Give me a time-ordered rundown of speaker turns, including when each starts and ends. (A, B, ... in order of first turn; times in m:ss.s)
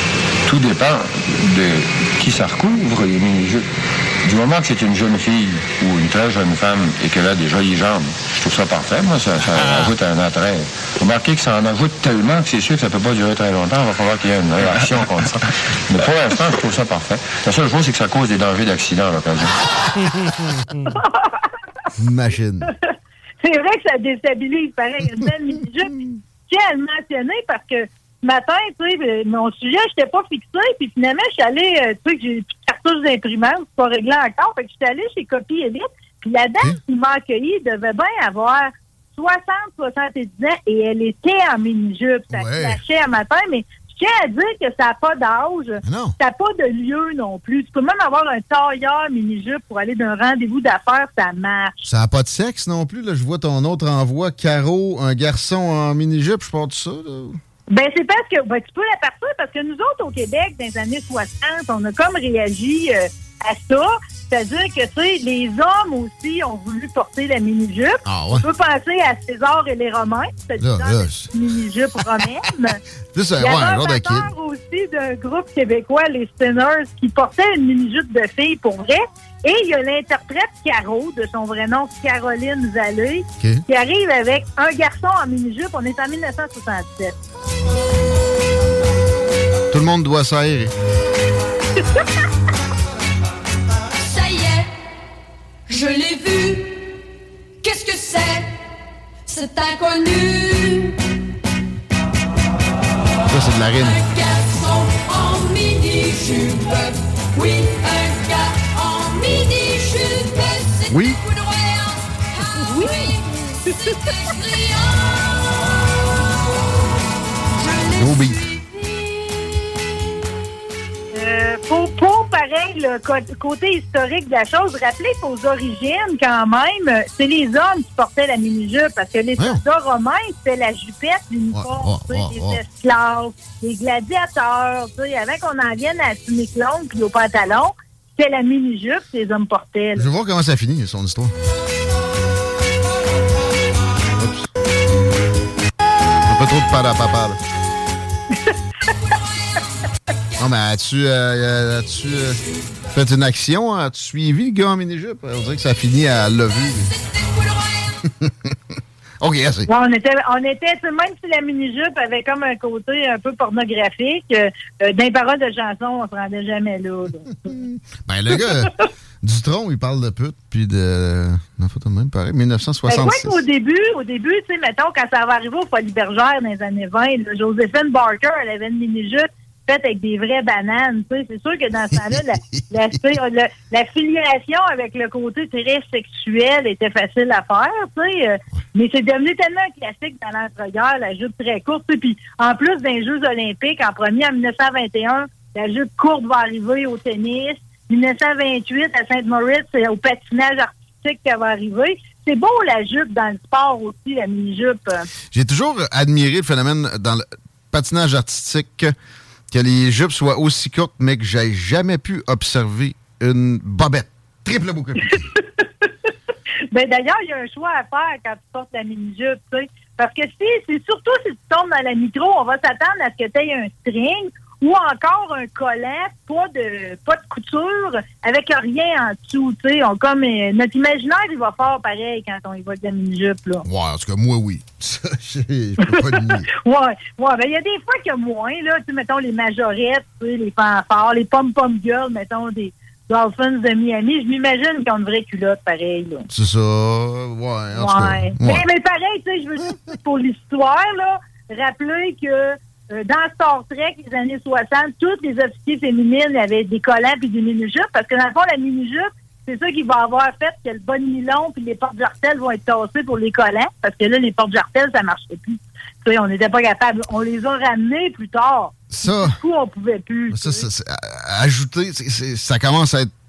0:00.4-0:03.6 A
0:04.2-0:19.6 A
0:09.5-0:09.9 B
0:20.9-0:21.4 C
0:22.0-0:22.7 B
0:23.4-0:25.9 C
0:26.5-0:51.9 C
0:42.3-0:42.8 B
0:45.8-0:46.2 B
0:51.9-0:57.4 B
0:57.7-1:12.8 C
1:08.0-1:08.4 B
1:10.6-1:11.3 B
1:13.1-1:14.3 B
1:13.4-1:27.2 C
1:29.7-1:30.7 B
1:34.0-1:34.7 D
1:35.7-1:36.9 D
1:37.6-1:38.5 D
1:39.3-1:41.0 D
1:43.3-1:44.0 B
1:43.8-1:55.2 D
1:50.9-1:51.2 B
1:52.7-1:53.0 C
1:57.6-1:59.2 D
1:57.9-1:58.4 B
2:01.1-2:20.1 C
2:09.4-2:09.6 B
2:11.5-2:12.6 B
2:19.9-2:21.3 B
2:24.2-2:24.5 B
2:26.2-2:27.4 B
2:30.4-2:36.9 B
2:37.1-2:37.9 D
2:38.2-2:38.5 B
2:39.2-2:39.7 B
2:39.7-2:47.3 C
2:47.5-2:53.4 B
2:52.9-3:25.0 C
3:02.0-3:02.6 B
3:25.3-3:28.9 B
3:29.5-3:35.3 B
3:36.7-3:53.6 C
3:53.6-3:56.4 B
3:55.8-4:06.2 C
4:06.3-4:08.6 B
4:07.7-4:30.6 C
4:28.9-4:29.4 B
4:30.3-4:33.1 B